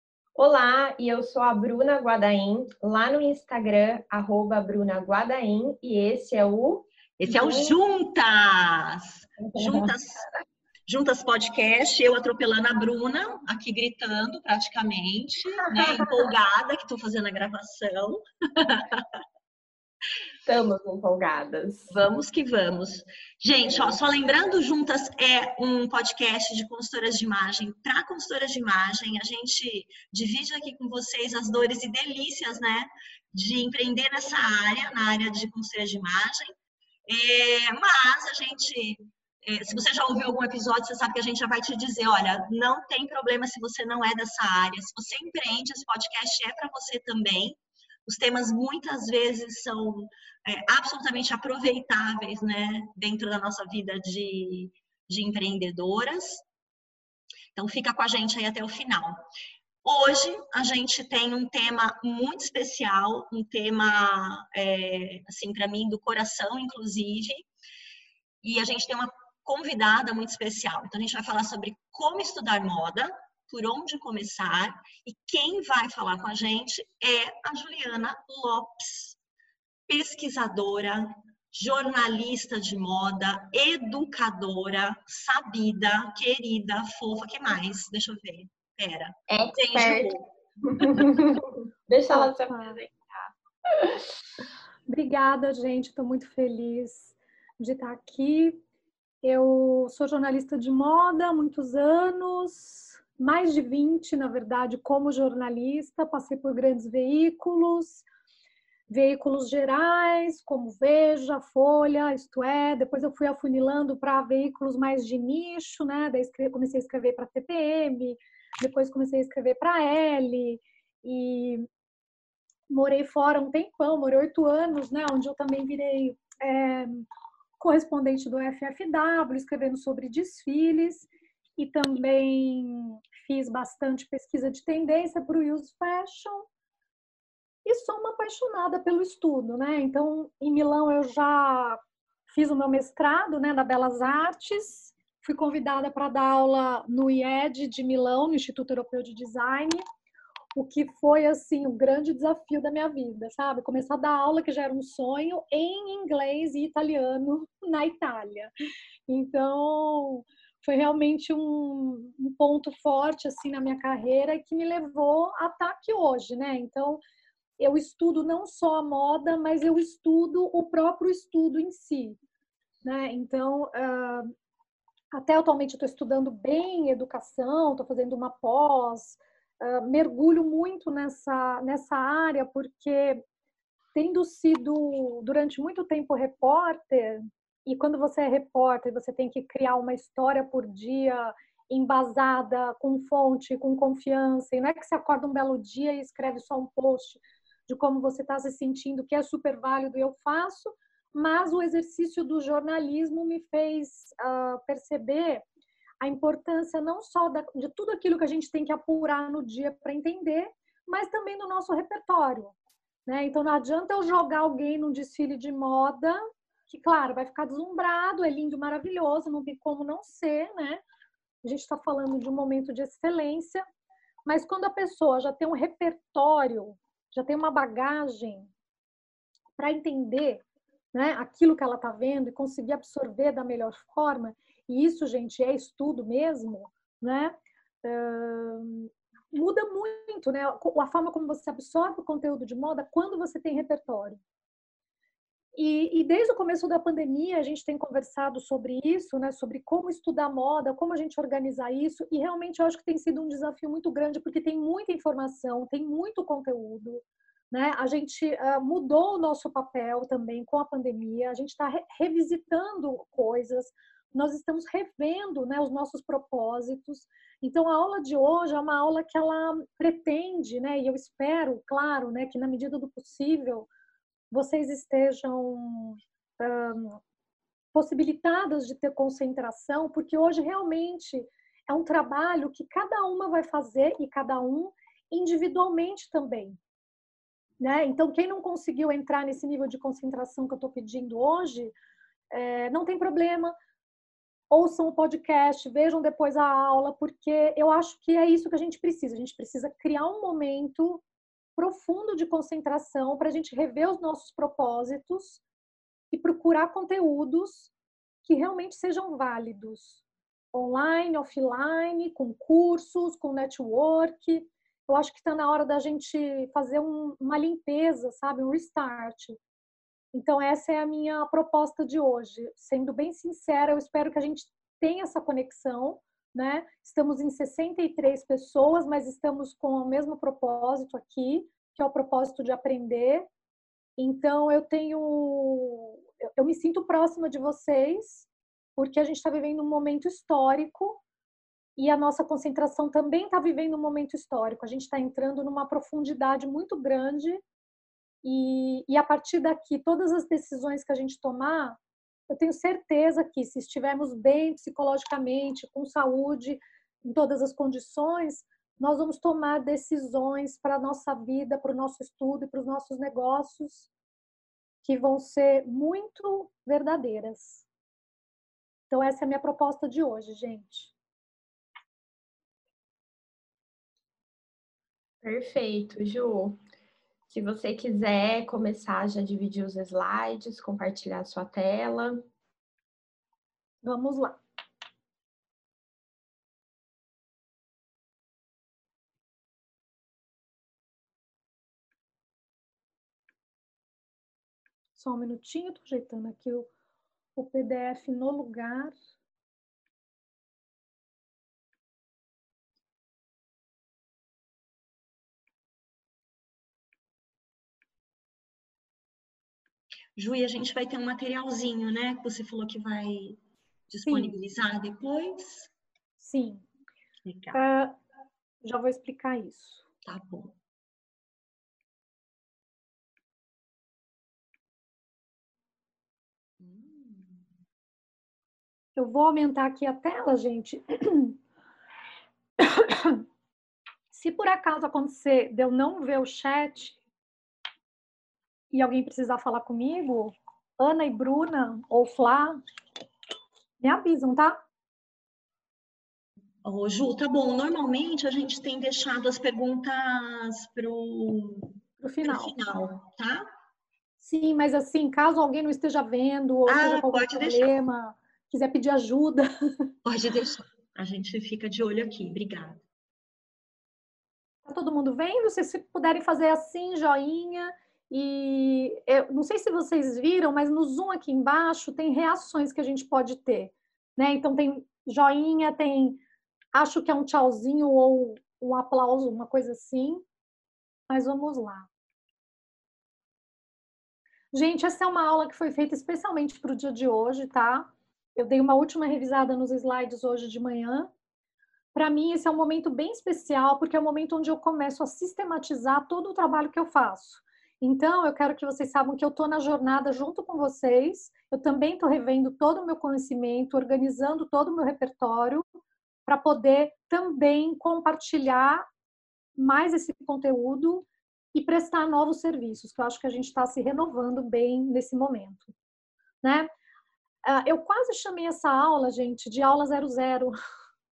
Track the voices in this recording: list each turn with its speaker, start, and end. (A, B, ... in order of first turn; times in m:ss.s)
0:00.4-0:07.8 A
0:07.2-0:10.2 B
0:09.4-0:09.9 A
0:10.9-0:19.1 B
0:15.7-0:16.2 A
0:20.4-0:21.9 A
0:21.9-0:36.5 B
0:37.0-0:56.4 B
0:57.5-0:59.2 B
0:59.8-1:07.4 B
1:08.4-1:19.2 B
1:19.9-1:30.2 B
1:29.3-1:32.9 A
1:30.8-1:31.1 B
1:32.1-1:32.8 C
1:34.9-1:38.6 C
1:39.2-1:48.0 C
1:48.9-2:01.7 C
2:02.7-2:07.1 C
2:07.6-2:16.5 C
2:17.6-2:29.8 C
2:30.5-2:38.5 C
2:39.1-2:47.0 C
2:47.6-2:52.2 C
2:52.8-2:54.3 C
2:55.1-3:03.2 C
3:03.9-3:25.4 C
3:26.0-3:40.8 C
3:41.4-3:43.6 C
3:44.2-3:48.5 C
3:49.6-4:04.2 C
4:05.6-4:33.7 C
4:34.3-4:37.0 C
4:37.7-4:46.6 C
4:47.6-4:51.7 C
4:52.3-4:53.5 C
4:54.5-5:01.0 C
5:01.6-5:05.4 C
5:06.1-5:07.7 C
5:08.2-5:19.4 C
5:20.1-5:33.3 C
5:34.0-5:41.0 C
5:41.8-5:47.4 C
5:48.2-5:51.8 C
5:52.3-6:03.9 C
6:04.8-6:07.6 C
6:08.9-6:10.9 C
6:15.2-6:16.6 A
6:17.3-6:22.3 A
6:23.8-6:24.4 C
6:35.0-6:36.7 C
6:37.4-6:39.0 C
6:50.2-6:55.7 B
6:54.0-6:54.4 C
6:56.2-6:56.6 C
6:57.2-6:57.6 B
6:57.5-6:58.0 C
6:58.6-6:59.8 C
7:00.0-7:00.5 B
7:06.6-7:07.2 B
7:09.0-7:11.4 C
7:12.6-7:13.2 C
7:14.1-7:17.0 C
7:18.7-7:22.6 C
7:23.8-7:24.6 C
7:26.6-7:33.5 B
7:32.0-7:32.6 C
7:34.2-7:39.5 C
7:36.7-7:37.7 B
7:40.0-7:42.8 B
7:44.6-7:56.2 C
7:56.7-8:00.2 C
8:01.1-8:01.9 C
8:04.5-8:11.1 C
8:11.9-8:25.6 C
8:26.2-8:28.8 C
8:29.6-8:35.7 C
8:36.4-8:36.7 C
8:37.4-8:40.5 C